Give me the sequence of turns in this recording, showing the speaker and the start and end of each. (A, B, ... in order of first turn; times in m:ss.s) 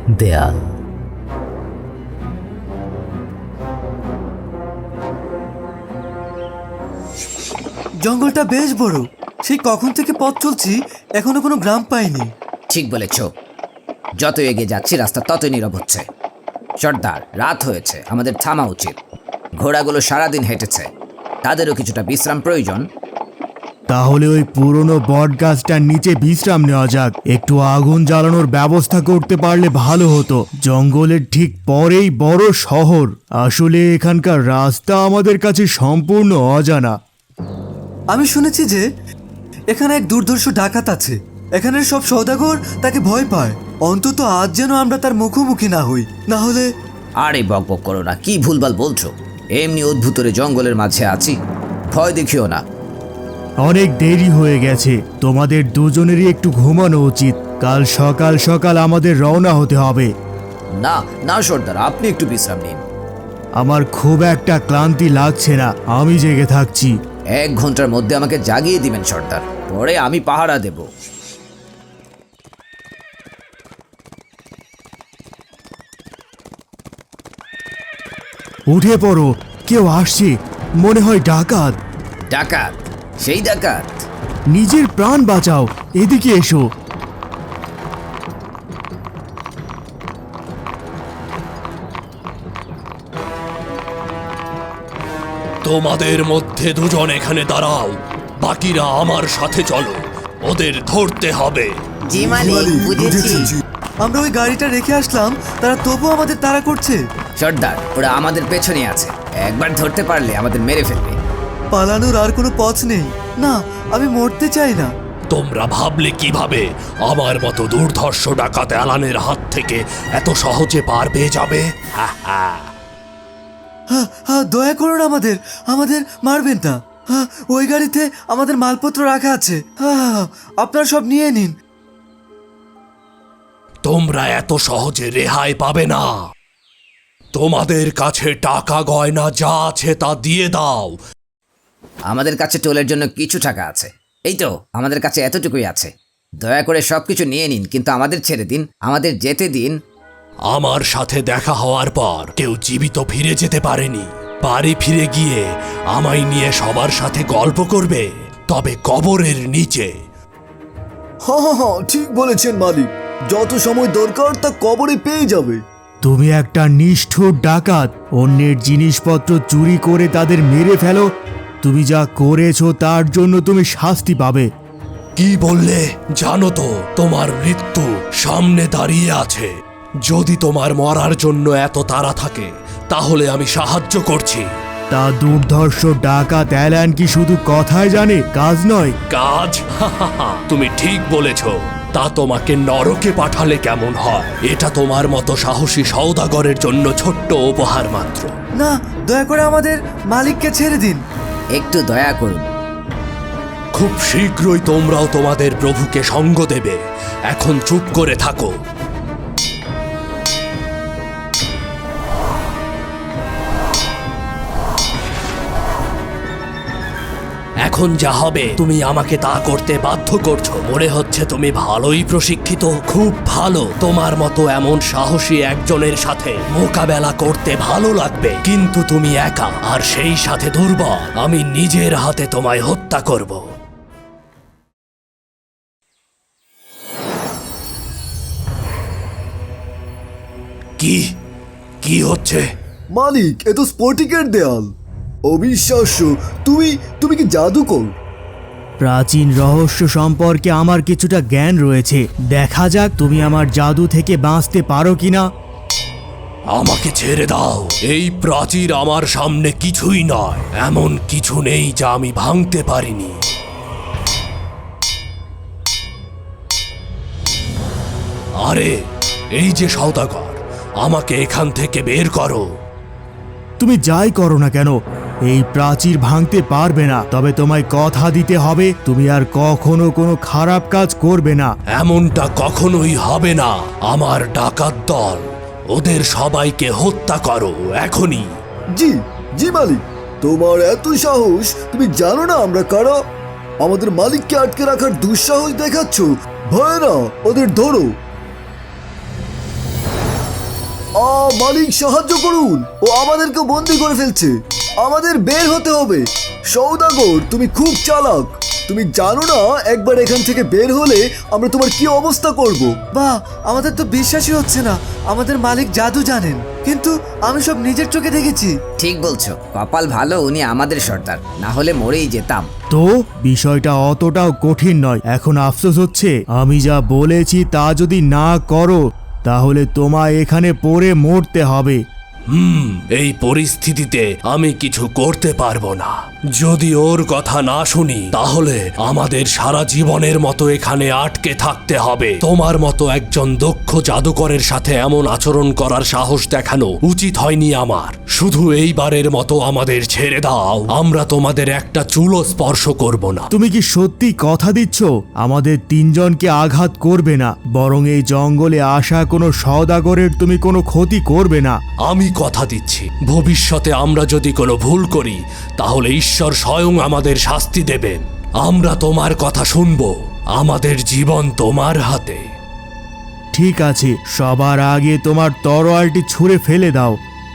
0:08.0-0:12.3 A
0:12.7-0:13.3 B
0:14.2-0:16.0 B
0:16.8-0:19.0 B
0:19.6-0:20.9 B
0:21.4-0:22.8 B
0:23.9-0:36.9 C
0:38.1-0:38.8 A
0:39.7-0:46.7 A
0:47.2-0:51.4 B
0:51.9-0:52.6 B
0:53.6-1:00.1 C
1:00.8-1:02.8 B
1:03.6-1:06.9 C
1:07.3-1:10.9 B
1:18.7-1:21.8 C
1:22.3-1:24.0 B
1:24.5-1:26.6 C
1:35.6-1:41.7 D
1:42.0-1:43.5 B
1:42.1-1:43.6 E
1:43.1-1:43.4 A
1:44.0-1:47.0 A
1:47.4-1:51.2 B
1:51.7-1:54.9 A
1:55.3-2:02.7 D
2:03.9-2:11.6 A
2:13.8-2:16.2 D
2:17.3-2:21.0 D
2:22.1-2:29.7 B
2:30.5-2:39.9 D
2:41.2-2:45.6 E
2:46.0-2:51.1 C
2:51.6-2:54.5 C
2:55.2-2:59.5 D
3:00.0-3:04.5 D
3:04.9-3:08.9 C
3:09.1-3:18.3 D
3:18.6-3:21.0 A
3:21.5-3:22.5 B
3:23.7-3:28.5 D
3:37.6-3:53.5 D
4:00.8-4:01.0 D
4:01.8-4:02.4 D
4:02.9-4:04.7 E
4:05.3-4:07.9 E
4:08.8-4:15.2 C
4:16.5-4:23.2 D
4:28.4-4:28.8 D
4:29.3-4:32.5 D
4:33.6-4:34.8 C
4:35.3-4:41.5 C
4:41.7-4:48.3 D
4:48.7-4:53.0 E
4:53.6-4:57.9 E
5:01.0-5:12.7 E
5:12.9-5:18.5 A
5:18.8-5:22.5 B
5:22.7-5:31.8 C
5:32.3-5:53.3 D
5:53.3-6:01.6 C
6:01.8-6:12.2 D
6:13.3-6:17.0 C